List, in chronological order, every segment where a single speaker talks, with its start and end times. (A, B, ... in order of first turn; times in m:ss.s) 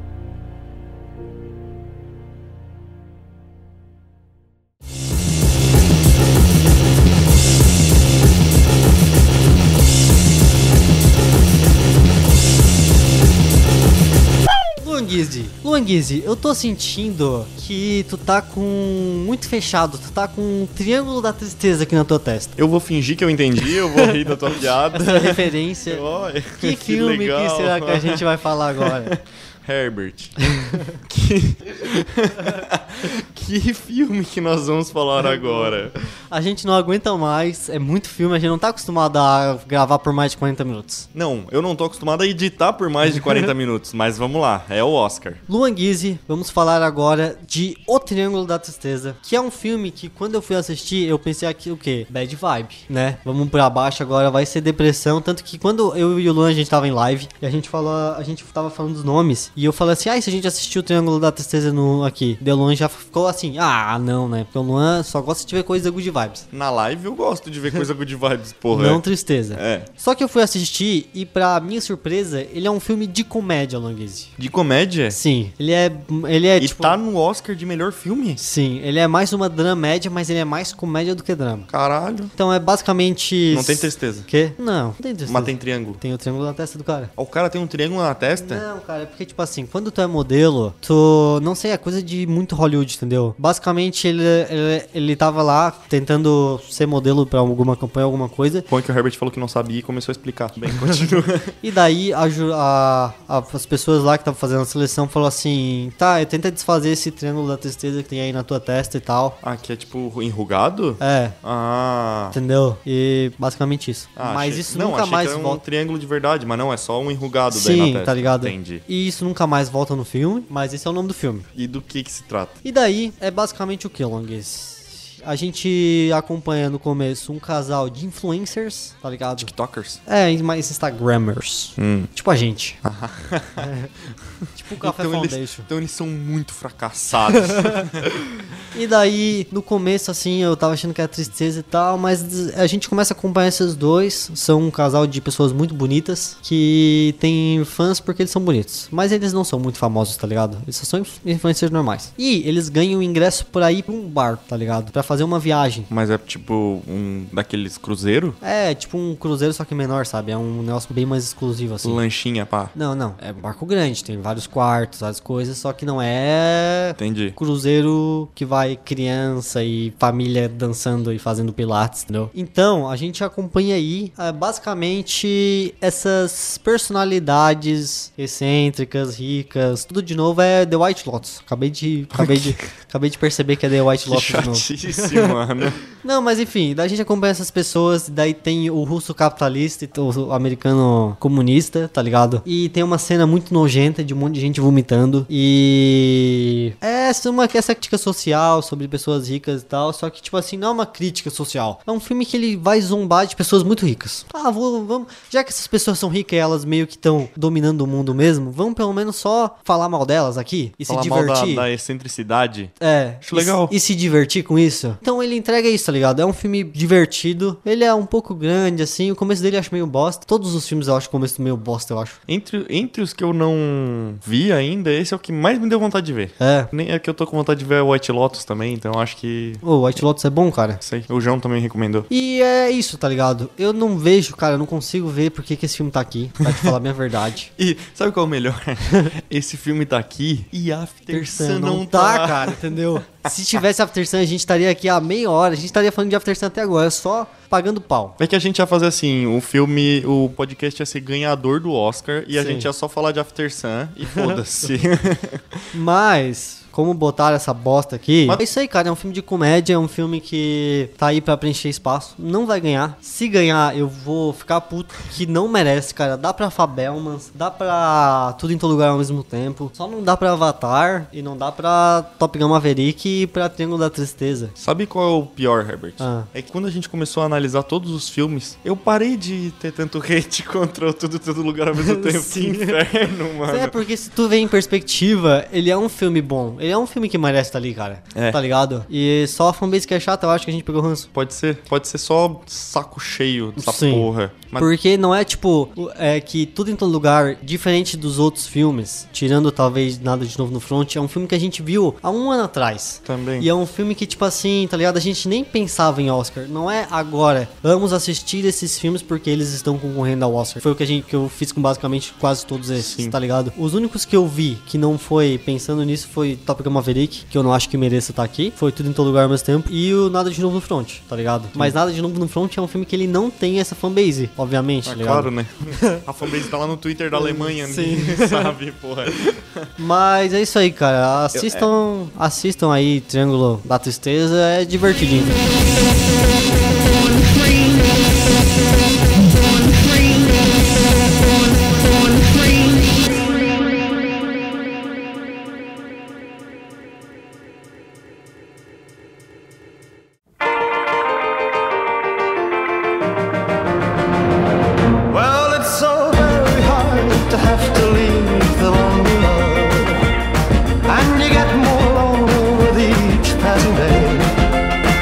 0:14.8-0:22.6 A
0:22.6-0:28.2 B
0:24.0-0:26.0 A
0:26.6-0:29.1 A
0:28.8-0:30.4 B
0:30.6-0:30.9 A
0:30.9-0:35.9 B
0:36.3-0:41.1 A
0:41.1-0:45.4 B
0:45.5-1:06.5 A
1:06.5-1:09.0 B
1:08.7-1:14.3 A
1:09.5-1:09.9 B
1:14.4-1:15.2 B
1:15.1-1:17.0 A
1:16.6-1:18.4 B
1:18.4-1:21.7 A
1:21.7-1:22.3 B
1:22.4-1:27.1 A
1:23.5-1:24.3 B
1:25.3-1:26.0 B
1:27.2-1:28.6 B
1:28.4-1:38.7 A
1:38.7-1:41.6 B
1:41.6-1:49.4 A
1:49.4-1:52.4 B
1:51.0-1:51.4 A
1:52.3-1:55.6 A
1:54.2-1:58.8 B
1:57.5-2:01.5 A
2:01.6-2:02.6 B
2:02.6-2:09.5 A
2:09.4-2:10.0 B
2:10.1-2:12.8 A
2:11.8-2:12.1 B
2:12.8-2:13.7 B
2:13.6-2:13.9 A
2:14.6-2:15.7 A
2:14.8-2:18.4 B
2:17.5-2:17.8 A
2:18.7-2:35.9 A
2:35.9-2:38.4 B
2:38.4-2:42.0 A
2:41.8-2:42.7 B
2:42.8-3:05.3 A
2:47.0-2:47.4 B
3:02.1-3:02.6 B
3:04.1-3:05.8 B
3:05.9-3:31.7 A
3:30.9-3:33.7 B
3:32.8-3:42.2 A
3:42.3-3:49.6 B
3:46.4-3:46.7 A
3:49.6-3:50.8 A
3:50.8-3:52.1 B
3:52.1-3:57.5 A
3:57.6-4:03.6 B
4:01.1-4:08.2 A
4:08.2-4:15.7 B
4:12.3-4:12.7 A
4:14.1-4:14.4 A
4:15.7-4:34.5 A
4:34.6-4:43.8 B
4:36.0-4:36.3 A
4:41.8-4:42.8 A
4:43.5-4:51.1 A
4:48.1-4:48.4 B
4:51.1-4:54.7 B
4:53.6-5:26.0 A
5:03.0-5:03.5 B
5:12.8-5:13.2 B
5:24.8-5:29.7 B
5:27.1-5:28.6 A
5:29.8-5:35.4 A
5:31.3-5:31.7 B
5:55.1-6:00.1 C
6:00.8-6:04.3 C